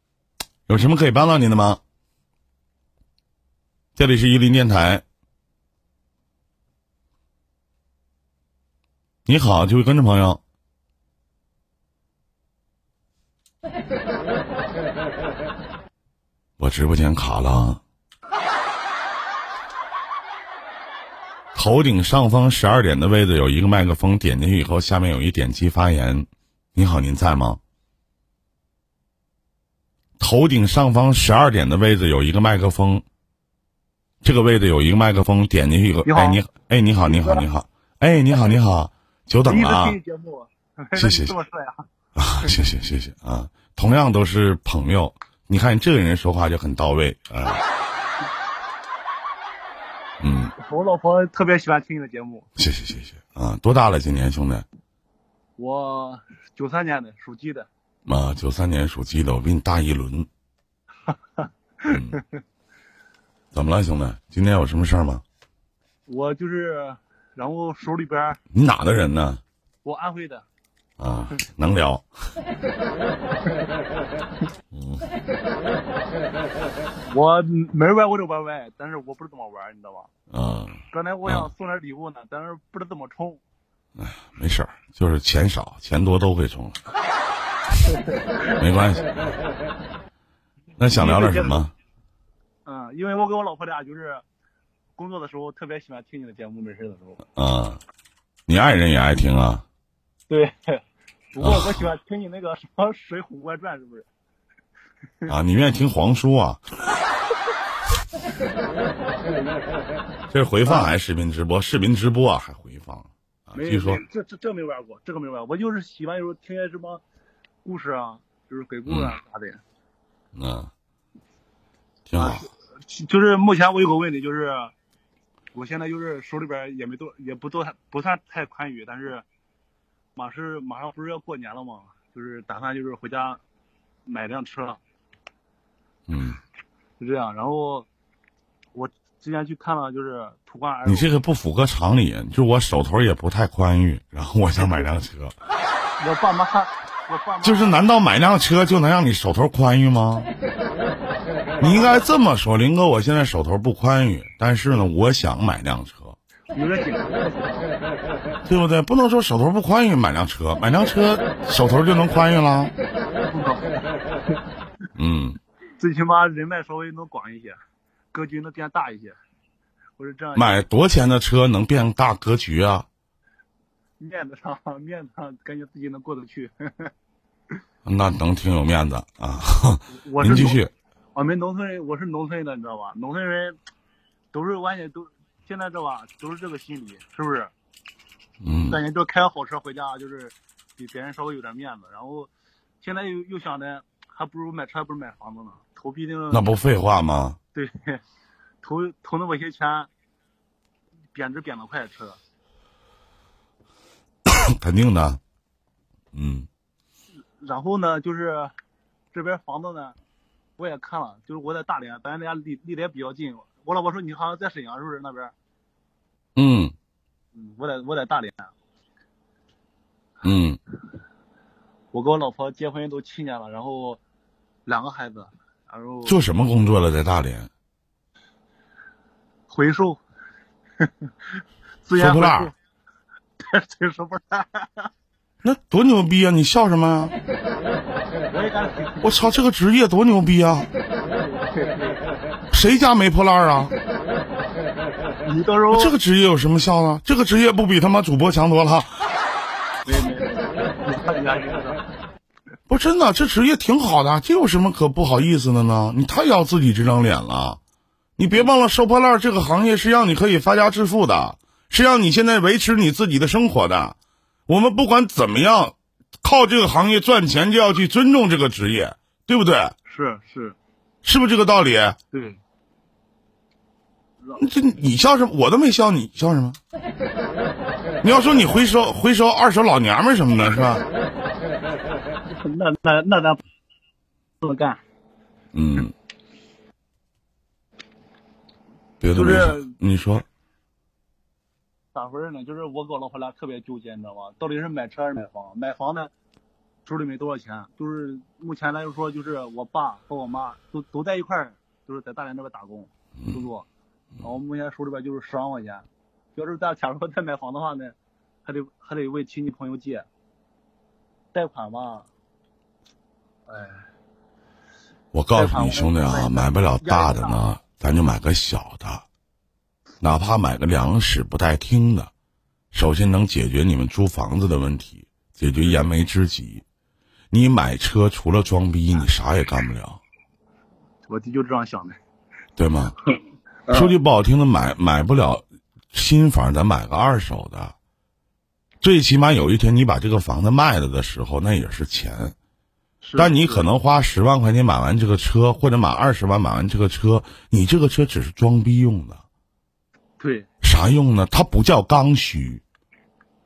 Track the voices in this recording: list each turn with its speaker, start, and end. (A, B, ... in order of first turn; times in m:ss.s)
0:00.7-0:01.8 A
0:04.0-0:05.0 A
0:09.3-0:10.4 A
0:16.6-0:17.8 A
0:21.5-0:27.6 A
0:30.2-0:33.0 A
0:34.2-0:40.0 A
0:36.0-0:36.4 B
0:37.0-0:37.4 B
0:39.4-0:41.8 B
0:41.0-0:41.3 A
0:42.2-0:47.6 A
0:50.2-0:50.5 A
0:50.6-0:52.4 B
0:52.6-0:54.6 A
0:55.6-0:57.7 B
0:58.0-1:00.3 A
1:01.4-1:02.2 B
1:01.9-1:02.2 A
1:03.5-1:05.2 A
1:06.1-1:08.4 B
1:08.5-1:09.4 A
1:09.8-1:10.4 B
1:11.0-1:12.0 A
1:14.7-1:15.0 A
1:17.1-1:20.1 B
1:20.3-1:21.5 A
1:20.9-1:23.4 B
1:24.0-1:26.8 A
1:27.8-1:28.2 B
1:28.6-1:29.0 A
1:30.8-1:31.7 A
1:30.9-1:31.6 B
1:32.6-1:34.2 B
1:35.0-1:37.2 B
1:37.3-1:37.8 A
1:38.5-1:39.6 A
1:40.3-1:44.1 B
1:41.4-1:41.9 A
1:45.3-1:46.6 A
1:50.3-1:54.0 A
1:50.6-1:50.9 B
1:53.5-1:57.0 B
1:57.6-1:59.6 B
1:58.8-1:59.1 A
2:00.3-2:00.7 A
2:02.1-2:02.5 A
2:02.2-2:04.7 B
2:05.5-2:09.2 B
2:10.2-2:13.4 B
2:14.0-2:14.8 B
2:16.1-2:16.4 A
2:17.0-2:17.9 B
2:18.7-2:21.1 B
2:20.8-2:25.4 A
2:24.6-2:24.8 B
2:26.0-2:27.8 B
2:27.4-2:30.3 A
2:31.6-2:32.0 B
2:31.6-2:36.2 A
2:36.5-2:37.7 B
2:38.4-2:42.7 A
2:43.3-2:43.9 B
2:45.0-2:45.4 A
2:45.8-2:47.5 B
2:48.1-2:49.2 B
2:50.0-2:50.6 B
2:50.3-2:52.8 A
2:54.0-2:56.9 B
2:57.8-3:00.7 A
2:59.9-3:00.6 B
3:01.1-3:03.6 B
3:04.3-3:07.5 B
3:08.4-3:08.8 A
3:08.7-3:12.3 B
3:12.8-3:16.5 B
3:16.3-3:17.4 A
3:17.5-3:18.0 B
3:18.6-3:19.9 B
3:21.1-3:22.2 B
3:24.3-3:25.2 A
3:26.1-3:26.5 A
3:27.4-3:28.5 B
3:29.1-3:29.9 B
3:30.6-3:35.3 B
3:36.4-3:36.7 A
3:37.3-3:38.5 B
3:40.2-3:40.6 A
3:41.9-3:44.0 B
3:44.6-3:46.2 B
3:46.0-3:47.5 A
3:49.5-3:50.0 B
3:51.8-3:52.5 B
3:51.9-3:52.5 A
3:53.4-3:54.9 B
3:55.4-3:57.1 A
3:58.3-3:59.4 B
3:59.0-4:00.7 A
4:01.1-4:02.0 B
4:02.5-4:03.7 A
4:05.2-4:05.9 B
4:05.7-4:08.9 A
4:09.8-4:11.8 B
4:12.7-4:17.6 A
4:18.2-4:24.0 A
4:24.5-4:29.7 A
4:29.8-4:30.6 B
4:31.0-4:32.0 A
4:32.1-4:32.4 B
4:34.4-4:36.6 A
4:38.0-4:40.8 A
4:42.3-4:43.4 B
4:44.4-4:44.8 B
4:45.5-4:45.9 A
4:49.0-4:50.2 A
4:49.1-4:49.7 B
4:51.9-4:56.1 B
4:56.8-5:03.7 B
5:03.2-5:03.4 A
5:04.2-5:10.0 B
5:11.3-5:12.1 B
5:13.5-5:13.8 B
5:15.1-5:19.0 A
5:15.3-5:17.4 B
5:20.0-5:22.1 A
5:22.7-5:26.6 A
5:25.5-5:25.9 B
5:27.3-5:30.0 A
5:31.1-5:32.0 B
5:32.6-5:33.0 A
5:33.7-5:34.0 B
5:33.7-5:37.7 A
5:38.8-5:42.3 A
5:43.0-5:43.7 B
5:43.2-5:49.2 A
5:50.2-5:50.5 B
5:50.6-5:52.6 A